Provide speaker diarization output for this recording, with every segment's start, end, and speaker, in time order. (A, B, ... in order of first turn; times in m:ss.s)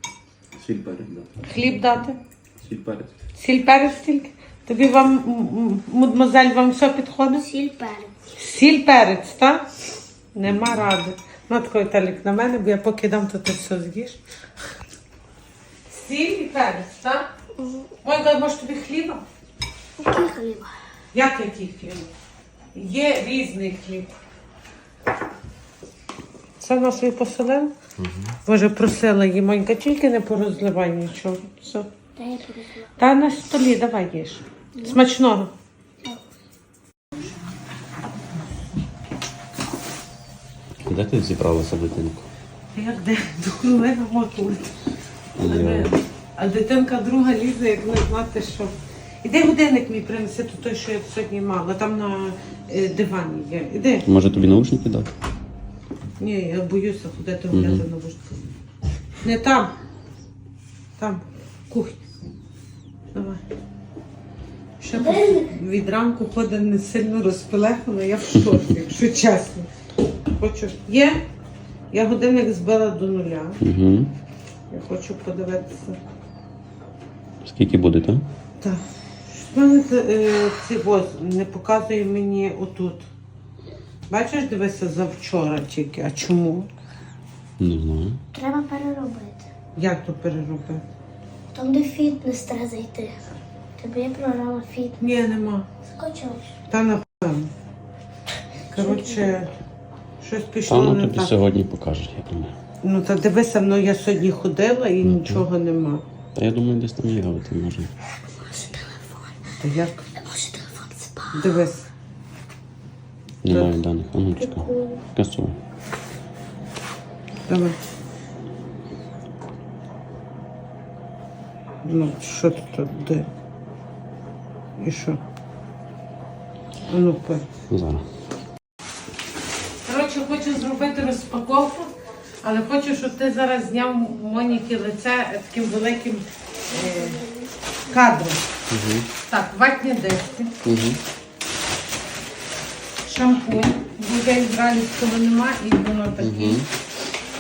0:00.6-0:01.3 A
0:01.4-0:02.2 B
0:02.6-0:03.1 A
0:03.4-0:07.5 B
0:07.4-0:08.1 C
0:08.3-0:09.7 B
0:10.3-0:14.2 B
0:10.5-0:10.8 A
0:15.9-0:17.3 B
0:17.6-0:17.9 C
0:18.0-0:19.2 B
0:20.0-0:20.7 C
0:21.1-0:22.1 B
0:22.8-0:24.1 B
0:26.6-0:27.7 B
0:28.0-0:28.4 A
0:28.5-0:31.9 B
0:32.2-0:32.9 C
0:33.0-0:35.5 B
0:40.9-0:42.3 A
0:42.7-0:44.7 B
0:45.4-0:45.9 A
0:45.4-0:48.7 B
0:49.2-0:54.1 B
0:54.1-0:55.1 A
0:56.2-0:58.4 B
0:57.5-0:57.8 A
0:59.2-0:59.7 B
1:01.0-1:02.0 B
1:03.1-1:03.4 B
1:04.8-1:09.7 B
1:04.9-1:05.5 C
1:10.4-1:11.2 B
1:11.9-1:13.6 B
1:13.6-1:14.1 A
1:14.7-1:16.0 B
1:17.4-1:18.2 A
1:18.6-1:23.1 B
1:24.1-1:26.7 B
1:27.6-1:28.2 A
1:28.3-1:29.5 C
1:29.8-1:30.8 B
1:31.5-1:35.0 C
1:35.0-1:35.6 B
1:36.0-1:36.4 C
1:36.7-1:37.5 B
1:38.7-1:39.3 C
1:38.7-1:39.5 B
1:40.2-1:41.4 B
1:40.7-1:42.6 A
1:42.8-1:46.0 B
1:45.0-1:45.5 A
1:46.4-1:47.9 A
1:48.4-1:49.3 C
1:49.6-1:50.0 B
1:50.2-1:51.5 C
1:51.3-1:51.9 B
1:53.4-1:55.6 A
1:53.5-1:53.7 B
1:54.4-1:55.0 C
1:57.5-1:57.8 B
2:01.8-2:03.3 B
2:04.8-2:05.2 B
2:06.9-2:07.5 B
2:07.7-2:08.1 A
2:09.8-2:11.9 B
2:12.4-2:17.2 B
2:16.8-2:17.5 C
2:17.9-2:18.4 B
2:18.7-2:19.1 A
2:19.3-2:20.6 B
2:20.6-2:21.0 A
2:23.0-2:26.6 B
2:26.2-2:26.7 A